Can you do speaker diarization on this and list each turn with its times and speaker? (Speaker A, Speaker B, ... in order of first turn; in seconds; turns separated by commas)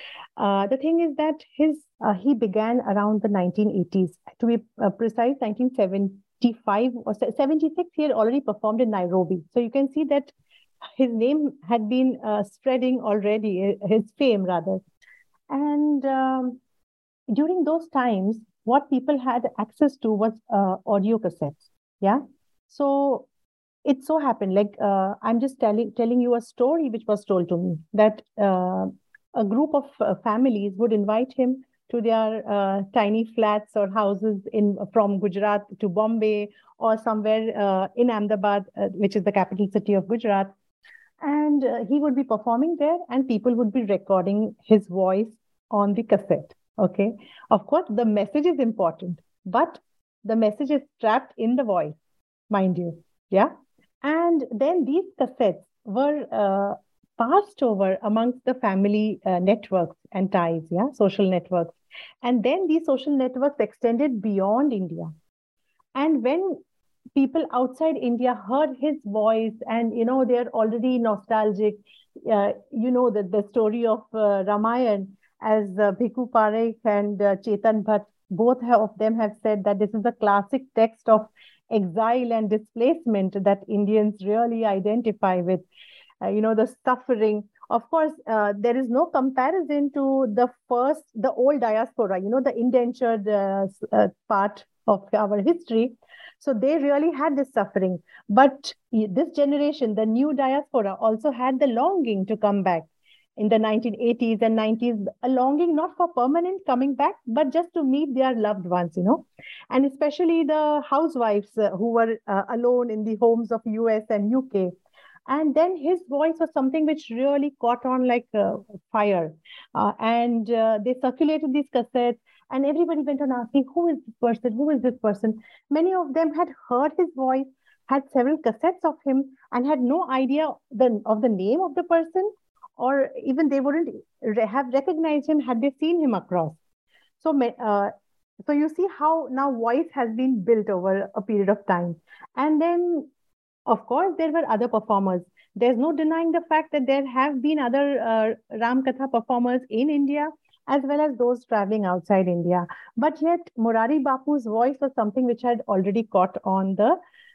Speaker A: 0.4-10.3, Speaker A: 11.0-14.8, Speaker A: 15.5-16.6, Speaker A: 17.3-23.3, Speaker A: 23.9-40.5, Speaker A: 41.2-52.0, Speaker A: 52.5-65.1, Speaker A: 66.0-66.6, Speaker A: 67.2-85.6, Speaker A: 86.2-114.7, Speaker A: 115.3-136.6, Speaker A: 137.2-137.9, Speaker A: 138.5-143.1, Speaker A: 143.7-157.0